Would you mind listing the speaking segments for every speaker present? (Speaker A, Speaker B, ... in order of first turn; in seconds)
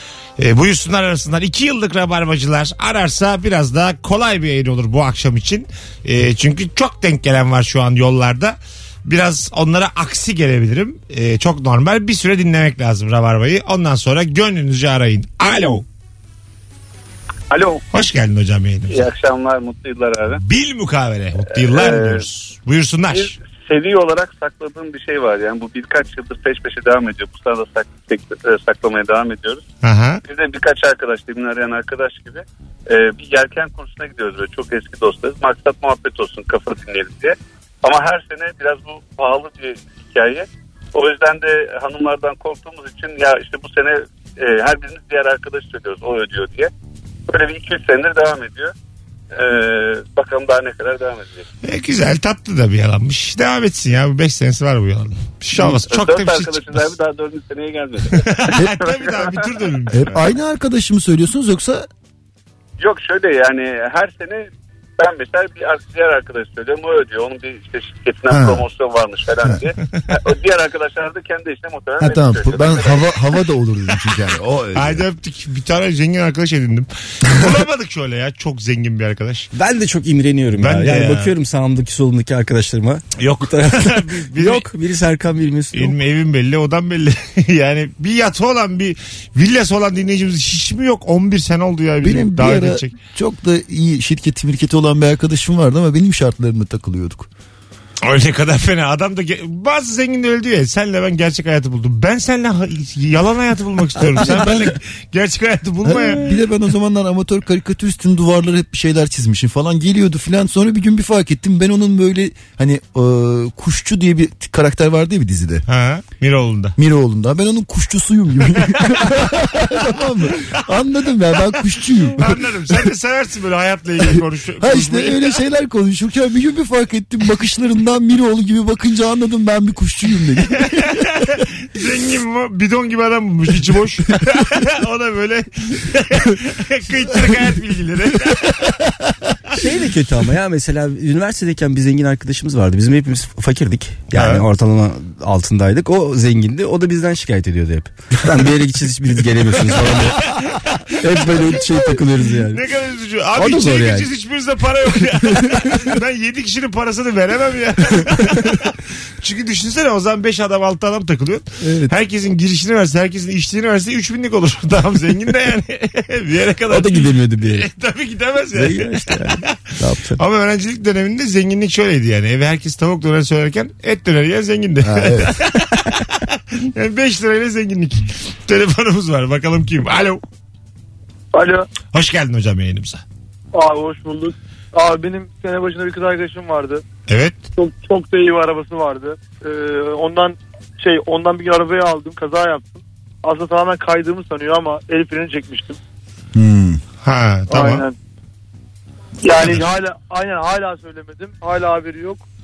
Speaker A: 0.4-15.8, 17.9-19.1, 20.3-23.4, 29.8-30.2, 51.6-56.9, 58.1-60.2, 74.7-79.5, 80.6-81.3, 83.2-84.7, 85.7-93.0, 98.0-106.2, 115.7-116.7, 122.2-125.4, 130.6-138.7, 144.1-144.4, 150.7-151.5, 152.5-169.6, 170.2-180.2, 181.9-183.0, 187.1-187.4, 197.0-197.8
Speaker B: 17.5-17.8, 18.9-20.4, 21.5-22.2, 23.1-29.6, 30.3-46.7, 47.3-48.7, 49.3-51.5, 55.6-58.6, 59.1-59.4, 62.8-73.1
Speaker C: 59.9-61.9, 68.3-68.7, 72.0-75.0, 92.0-97.3, 104.2-104.7, 105.8-115.6, 116.8-122.5, 124.0-131.0, 174.8-175.3, 196.3-196.8
Speaker D: 79.5-86.0, 139.6-150.3, 151.0-152.6, 153.3-154.1, 166.7-167.7, 168.5-170.2
Speaker E: 181.3-181.7, 183.5-186.8, 187.6-195.8, 197.5-197.9, 199.2-202.2